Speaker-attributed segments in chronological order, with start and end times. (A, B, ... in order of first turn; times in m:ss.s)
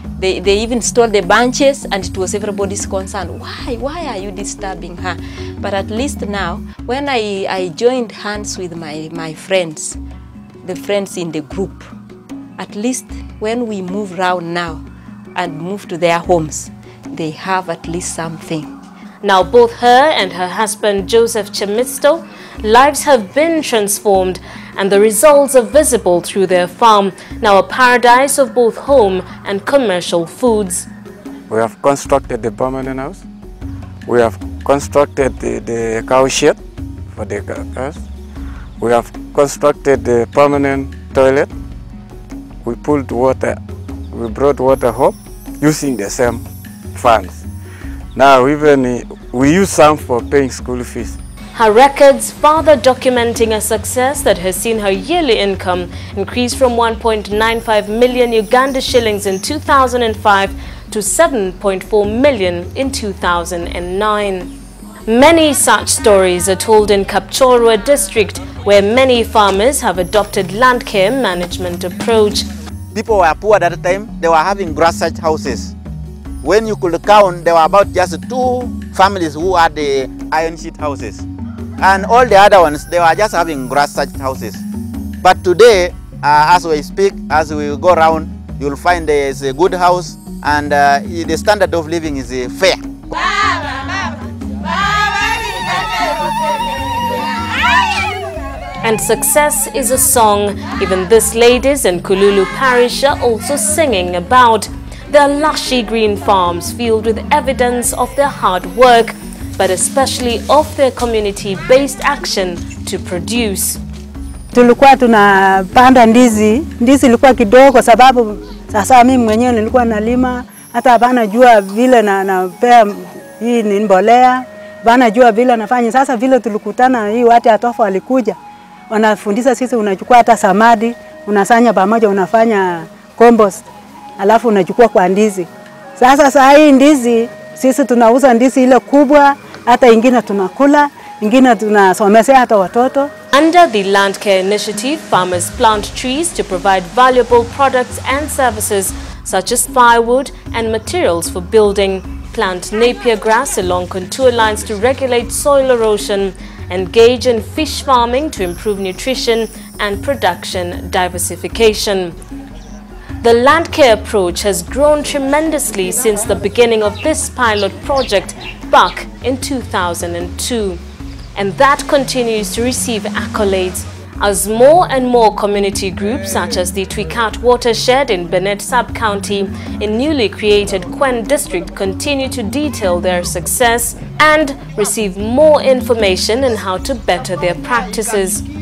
0:00.2-0:10.0 A
0:10.6-0:11.9 A
0:12.6-0:14.8 A
0:15.3-0:18.7 A
0:19.2-0:30.9 B
0:31.5-0:33.2 C
0:34.0-0:36.6 C
0:37.1-0:38.0 C
0:38.8-0:41.5 C
0:42.6-0:43.6 C
0:44.1-0:47.4 C
0:48.1-0:51.2 C
0:51.5-1:04.5 B
1:05.1-1:12.5 B
1:12.9-1:15.7 D
1:16.4-1:21.3 D
1:21.8-1:24.6 D
1:25.2-1:32.8 D
1:38.8-1:53.8 B
1:54.5-2:08.4 E
2:08.9-2:13.6 E
2:14.2-2:23.1 E
2:23.3-2:42.2 B
2:43.2-2:50.8 B
2:51.3-3:08.4 B